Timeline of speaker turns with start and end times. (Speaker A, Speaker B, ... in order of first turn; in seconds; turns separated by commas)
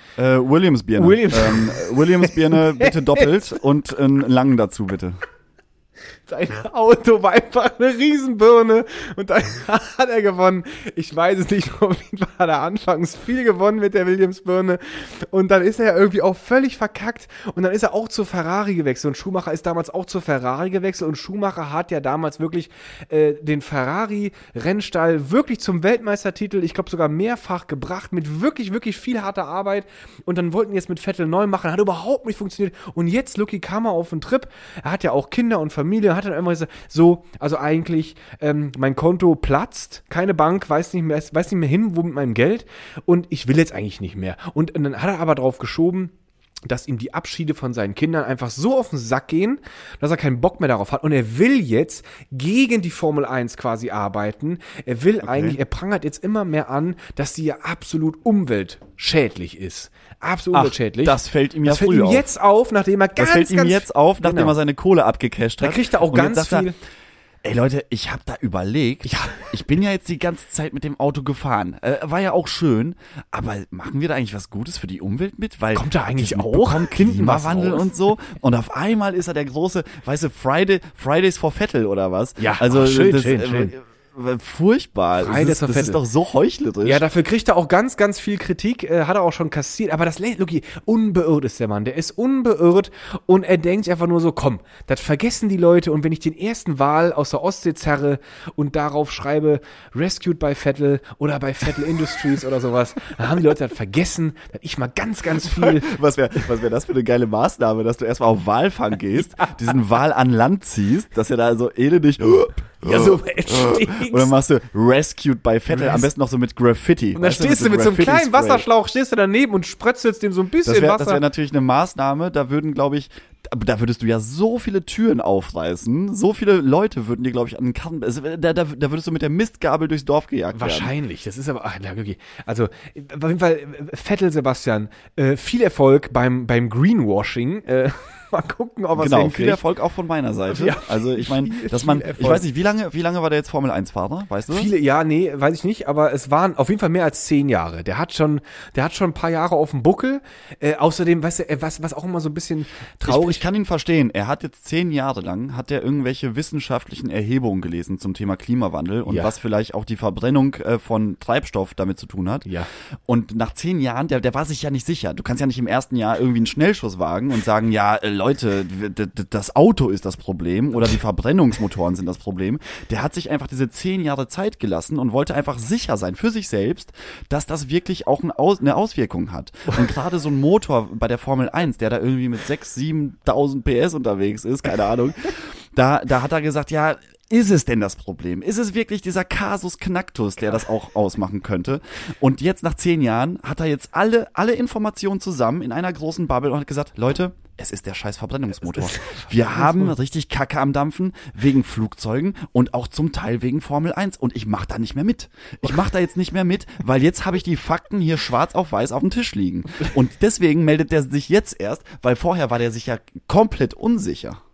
Speaker A: 0.2-5.2, Speaker B: 1.0-3.3, Speaker B: 6.3-46.1, Speaker B: 46.7-64.5, Speaker A: 55.2-55.6, Speaker A: 60.5-62.3, Speaker A: 63.2-66.7, Speaker B: 65.6-66.8, Speaker A: 67.4-87.1, Speaker B: 69.0-69.5, Speaker B: 75.7-77.9, Speaker B: 82.4-83.7, Speaker B: 85.2-86.0, Speaker B: 86.8-105.9, Speaker A: 105.4-118.7, Speaker B: 112.8-114.3, Speaker B: 115.7-116.1, Speaker B: 117.1-121.2, Speaker A: 120.7-130.9, Speaker B: 130.5-139.6, Speaker A: 139.0-144.7, Speaker B: 140.5-142.5, Speaker B: 144.5-153.4, Speaker A: 153.1-162.5, Speaker B: 159.1-159.3, Speaker A: 163.1-214.4, Speaker B: 198.7-200.0